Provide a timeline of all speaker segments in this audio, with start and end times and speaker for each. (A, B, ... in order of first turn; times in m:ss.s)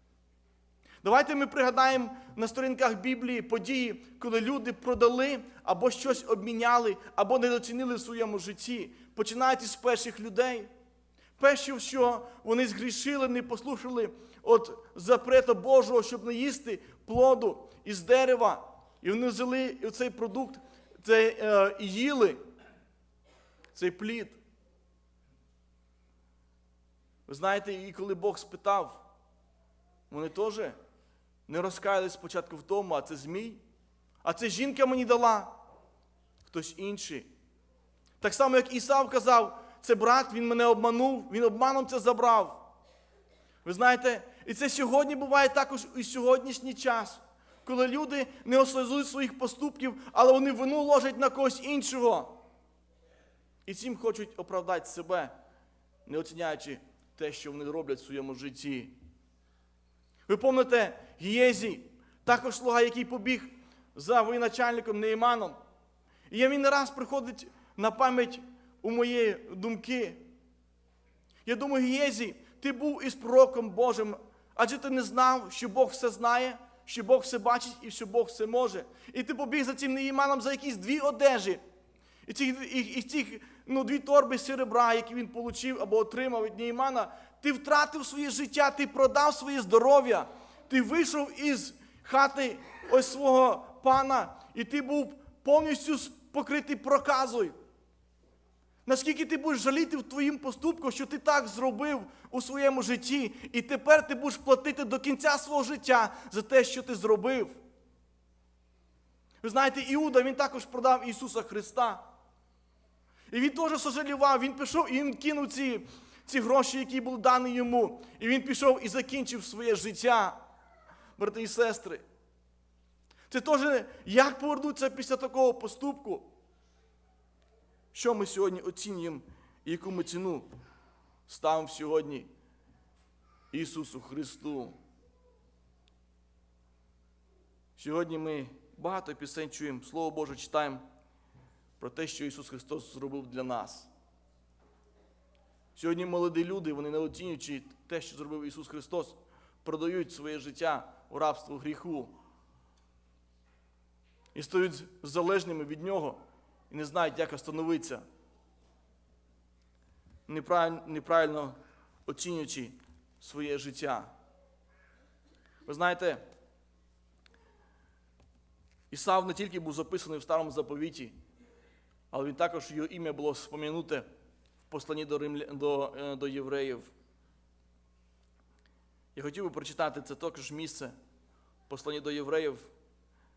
0:01.0-0:10.7 A
0:11.4-0:22.4 A
0:23.7-0:24.4 A
0:27.3-0:29.0 A
0:30.1-0:30.8 A
0:31.5-0:33.6 A
0:34.2-0:35.6 A
0:36.4-0:37.3 A
0:38.2-0:42.6 A
0:43.6-0:52.4 A
0:53.6-0:55.3 A
0:56.0-0:59.0 A
1:00.3-1:05.6 A
1:06.3-1:10.3 A
1:11.4-1:21.6 A
1:22.2-1:37.5 A
1:38.8-1:47.5 A
1:49.4-1:52.0 A
1:53.3-2:00.4 A
2:01.2-2:02.0 A
2:03.3-2:06.3 A
2:07.9-2:10.5 A
2:11.3-2:12.3 A
2:13.5-2:14.7 A
2:17.8-2:20.8 A
2:21.8-2:23.9 A
2:25.7-2:32.1 A
2:34.3-2:38.0 A
2:40.3-2:41.5 A
2:42.0-2:44.1 A
2:45.6-2:46.2 A
2:48.9-2:51.1 A
2:52.1-2:54.0 A
2:54.7-2:56.9 A
2:59.1-3:00.9 A
3:01.7-3:02.7 A